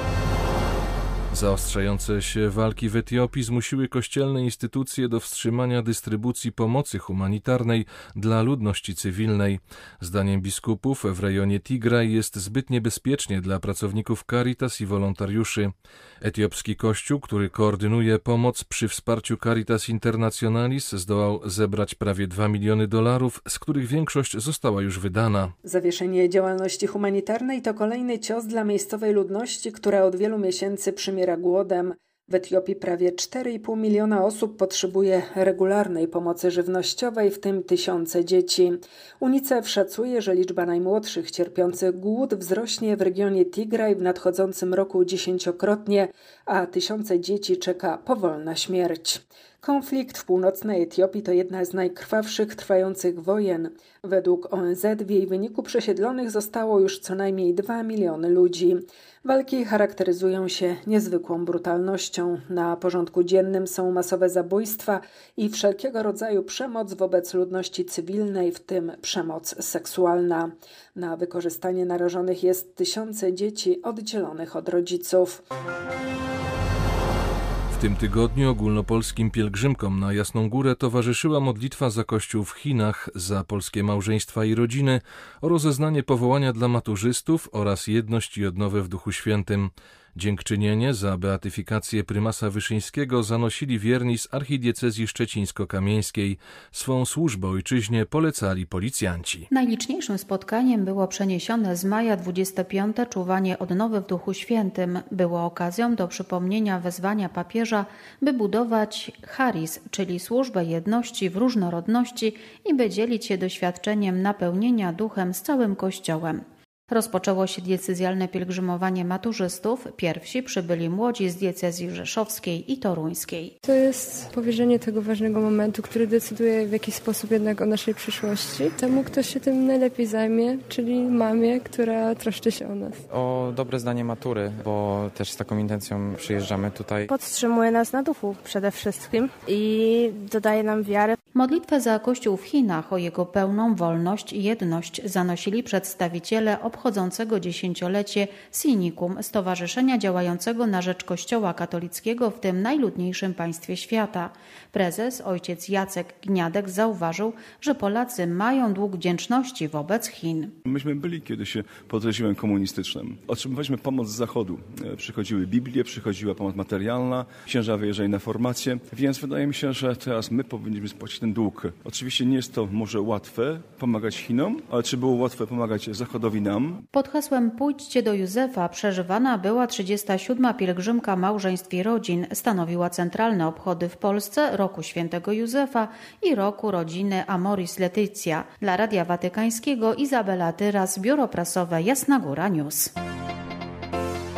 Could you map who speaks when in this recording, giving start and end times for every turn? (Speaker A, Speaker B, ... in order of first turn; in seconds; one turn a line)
Speaker A: 1.3-25.5
Speaker B: 25.6-38.7
Speaker B: 39.2-58.7
Speaker B: 59.2-75.4
Speaker A: 77.7-99.5
Speaker C: 99.5-123.6
Speaker D: 123.7-133.0
Speaker E: 133.2-137.1
Speaker F: 137.1-141.2
Speaker C: 141.3-160.5
Speaker G: 160.7-176.8
Speaker C: 176.9-192.9